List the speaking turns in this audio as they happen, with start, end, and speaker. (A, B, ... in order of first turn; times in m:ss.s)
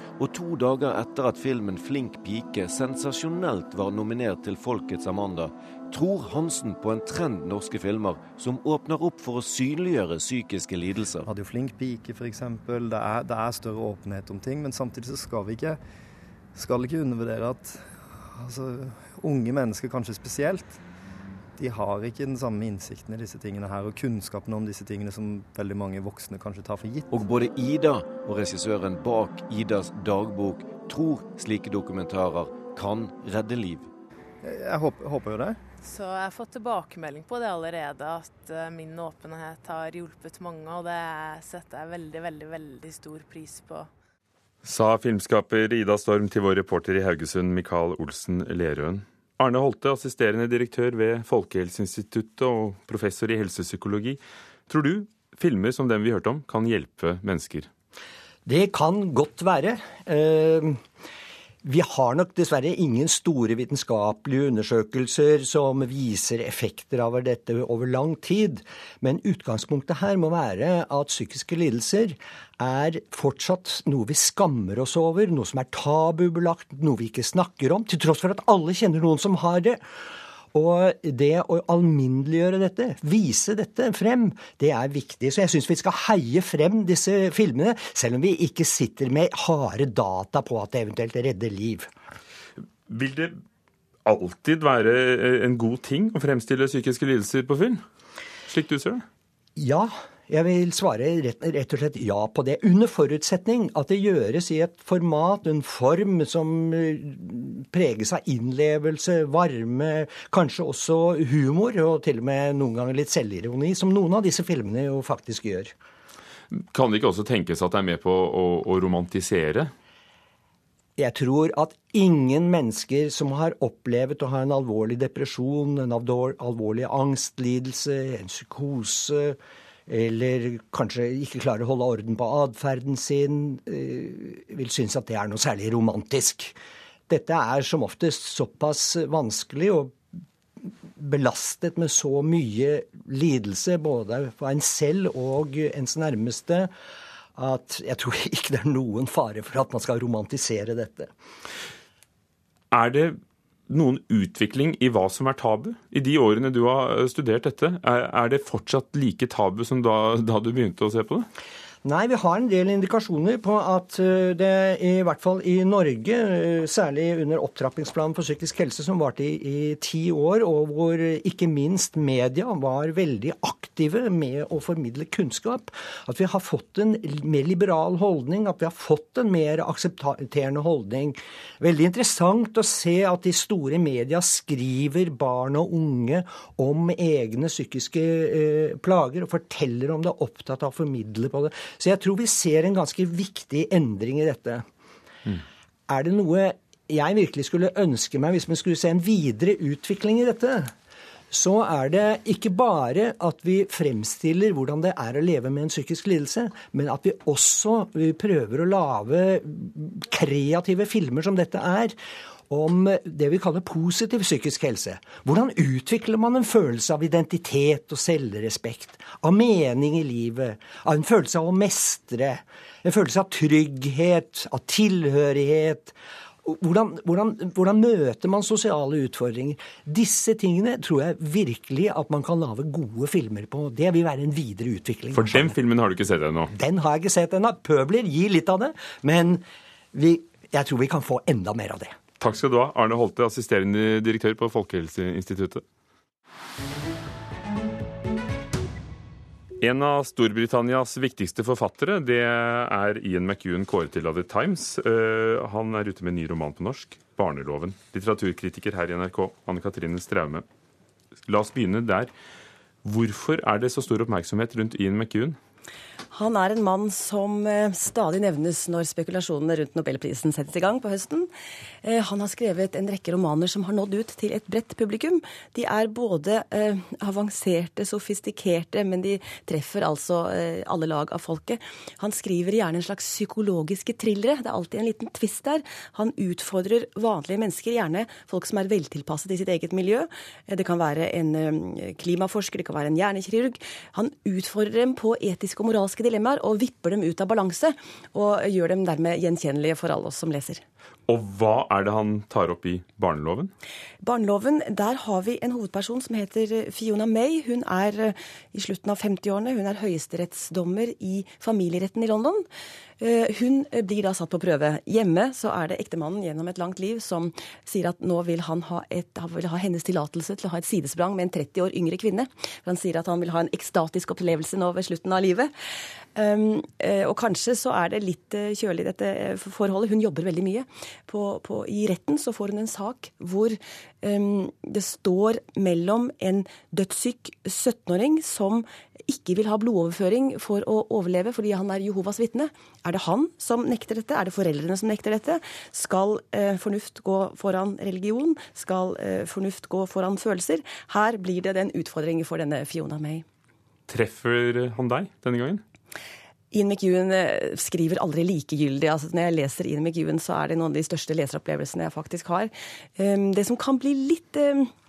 0:00.2-0:11.3 A
0:11.2-0:15.8 B
0:16.5-0:20.8 B
0:21.6-0:27.2 B
0:27.1-0:33.9 A
0:34.4-0:35.6 B
0:35.8-0:43.9 C
0:44.6-0:57.7 D
0:58.5-1:00.8 E
1:01.6-1:19.8 E
1:20.5-1:31.9 E
1:32.9-1:33.4 D
1:34.1-1:37.8 D
1:38.5-1:39.0 D
1:39.6-1:55.8 E
1:56.5-1:59.7 D
2:01.0-2:16.6 E
2:17.1-2:20.0 E
2:20.6-2:26.7 E
2:27.4-2:31.1 E
2:32.7-2:33.2 D
2:33.7-2:41.3 D
2:41.8-3:14.6 E
3:15.9-3:20.7 E
3:21.3-3:32.0 E
3:32.5-3:55.6 E
3:55.1-3:56.5 D
3:56.5-4:02.0 E
4:02.2-4:05.6 D
4:09.6-4:20.4 D
4:21.3-4:22.1 D
4:22.8-4:25.4 D
4:26.1-4:31.3 F
4:31.8-5:00.6 F
5:01.1-5:03.5 D
5:04.0-5:12.5 F
5:13.0-5:25.5 F
5:26.2-5:53.2 F
5:53.9-5:55.6 D
5:56.5-6:04.7 F